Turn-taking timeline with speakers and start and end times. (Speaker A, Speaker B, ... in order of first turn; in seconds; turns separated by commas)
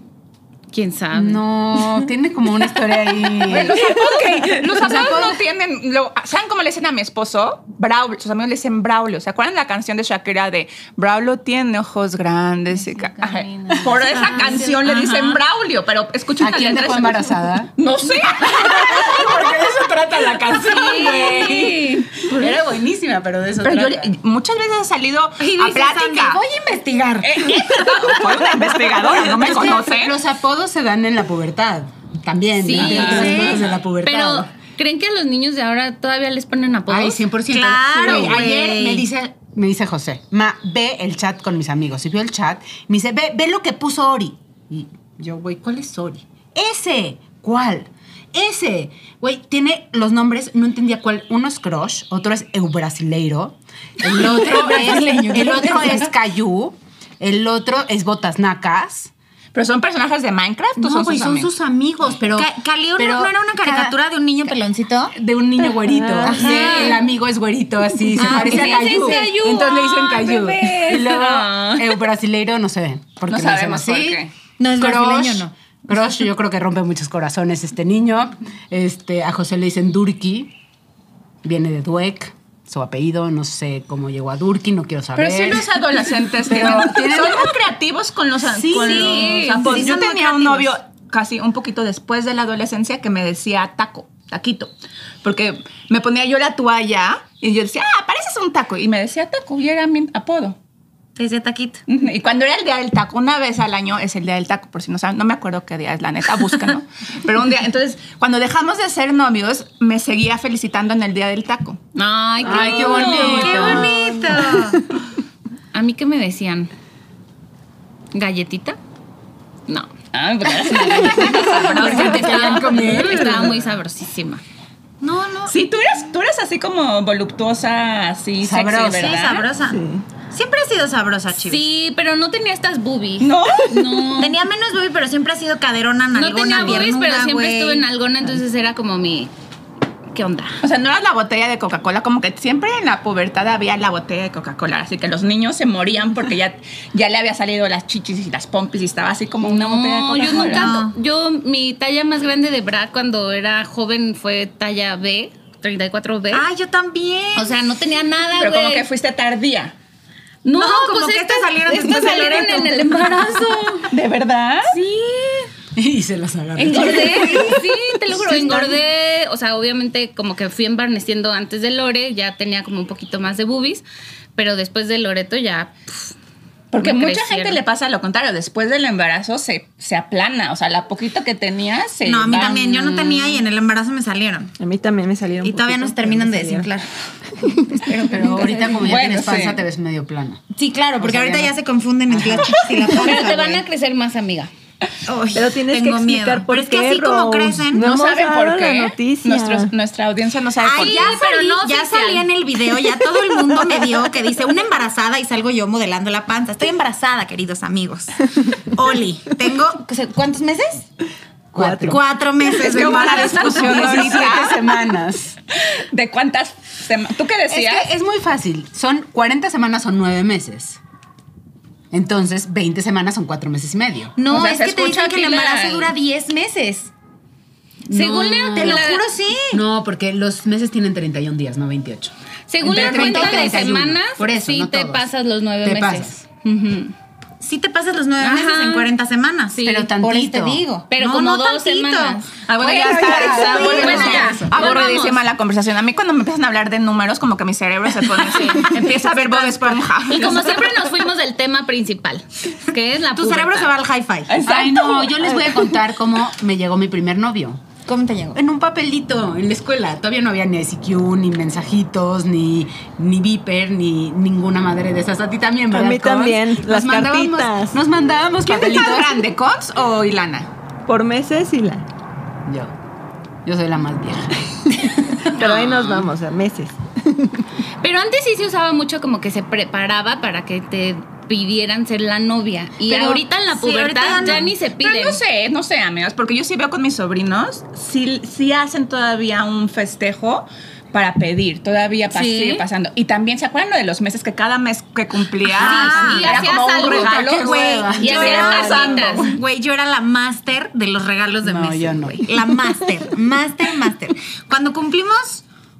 Speaker A: 0.7-1.4, Speaker B: 1.1-3.7, Speaker C: 3.5-19.6, Speaker A: 4.7-5.3, Speaker B: 4.9-5.2, Speaker A: 12.7-15.4, Speaker D: 14.0-14.6, Speaker B: 16.4-24.1, Speaker A: 20.5-22.5, Speaker C: 23.6-26.4, Speaker D: 25.4-26.4, Speaker B: 26.3-28.4, Speaker C: 27.2-30.1, Speaker B: 28.9-34.5, Speaker A: 32.6-37.2, Speaker C: 32.7-33.7, Speaker D: 32.8-33.6, Speaker B: 36.9-59.1, Speaker D: 37.5-39.0, Speaker C: 38.0-38.4, Speaker D: 54.0-56.1, Speaker C: 59.5-61.5, Speaker B: 60.8-64.0, Speaker D: 62.3-65.2, Speaker B: 65.1-74.2, Speaker E: 65.9-66.3, Speaker D: 66.3-67.0, Speaker A: 66.3-67.0, Speaker D: 68.2-68.8, Speaker A: 68.2-71.5, Speaker C: 70.9-71.9, Speaker C: 73.3-74.3, Speaker D: 74.6-75.5, Speaker B: 74.8-80.5, Speaker B: 81.4-85.8, Speaker C: 85.1-94.7, Speaker B: 86.4-87.7, Speaker B: 88.4-89.5, Speaker A: 88.7-89.9, Speaker D: 88.9-90.7, Speaker C: 95.2-100.6, Speaker D: 101.2-101.8, Speaker C: 101.9-111.8, Speaker A: 111.9-114.1, Speaker B: 112.4-113.9, Speaker D: 112.6-114.8, Speaker C: 112.9-113.4, Speaker A: 115.7-116.7, Speaker A: 118.1-118.8, Speaker C: 120.1-123.5, Speaker A: 120.5-124.4, Speaker B: 121.1-123.7, Speaker D: 125.0-125.5, Speaker C: 125.5-129.5, Speaker B: 128.4-129.1, Speaker D: 128.9-131.7, Speaker E: 129.7-130.0, Speaker A: 131.4-134.4, Speaker C: 133.2-134.1, Speaker D: 134.2-137.8, Speaker A: 136.1-139.3, Speaker C: 136.5-136.9, Speaker A: 140.1-140.6, Speaker C: 140.6-150.8, Speaker A: 149.4-156.4, Speaker D: 150.3-150.9, Speaker D: 156.3-157.6, Speaker A: 157.3-158.8, Speaker C: 158.4-159.7, Speaker A: 160.4-163.9, Speaker D: 160.6-163.2, Speaker C: 163.9-164.7, Speaker A: 164.7-165.5, Speaker B: 165.8-167.6, Speaker A: 166.6-173.8, Speaker D: 167.0-168.8, Speaker A: 174.3-176.1, Speaker C: 176.7-183.2, Speaker A: 176.8-177.6, Speaker D: 182.0-184.5, Speaker A: 182.7-183.4, Speaker E: 184.6-186.7, Speaker D: 185.4-186.9, Speaker D: 187.4-188.7, Speaker B: 188.1-190.4, Speaker C: 188.1-189.6, Speaker A: 188.3-188.7, Speaker D: 190.5-193.6, Speaker B: 191.0-191.6, Speaker B: 192.1-192.9, Speaker A: 192.9-194.5, Speaker D: 195.1-197.9, Speaker E: 195.3-199.7, Speaker C: 197.7-201.2, Speaker D: 200.6-210.9, Speaker A: 200.7-202.2, Speaker E: 203.6-203.9, Speaker B: 211.5-212.0, Speaker E: 211.6-212.0, Speaker D: 211.7-214.4, Speaker C: 212.6-214.8, Speaker B: 212.6-215.4, Speaker C: 215.5-217.9, Speaker B: 217.5-220.8, Speaker B: 221.9-224.1, Speaker D: 224.2-226.9, Speaker C: 224.3-225.9, Speaker B: 227.9-228.9, Speaker A: 227.9-229.0, Speaker D: 228.5-229.6, Speaker B: 229.5-235.1, Speaker A: 232.5-236.9, Speaker D: 232.7-233.8, Speaker B: 235.6-236.2, Speaker D: 237.4-244.3, Speaker A: 238.2-238.9, Speaker A: 239.5-239.9, Speaker B: 239.6-240.6, Speaker A: 240.9-242.3, Speaker C: 242.5-250.8, Speaker B: 242.6-244.7, Speaker A: 243.1-245.2, Speaker D: 248.2-250.0, Speaker A: 248.3-248.9, Speaker A: 250.1-253.7, Speaker D: 253.1-254.5, Speaker C: 254.3-255.1, Speaker B: 254.4-257.6, Speaker D: 257.9-258.4, Speaker B: 258.3-269.3, Speaker E: 265.7-267.8, Speaker C: 268.4-270.5, Speaker E: 270.9-271.8, Speaker B: 272.4-272.7, Speaker B: 273.4-275.5, Speaker E: 275.3-277.4, Speaker A: 277.8-285.2, Speaker D: 282.9-284.5, Speaker C: 284.0-299.4, Speaker A: 292.1-292.6, Speaker D: 295.5-296.4, Speaker A: 295.6-297.1, Speaker B: 296.3-298.8, Speaker D: 297.3-305.4, Speaker A: 298.0-299.4, Speaker B: 301.4-302.3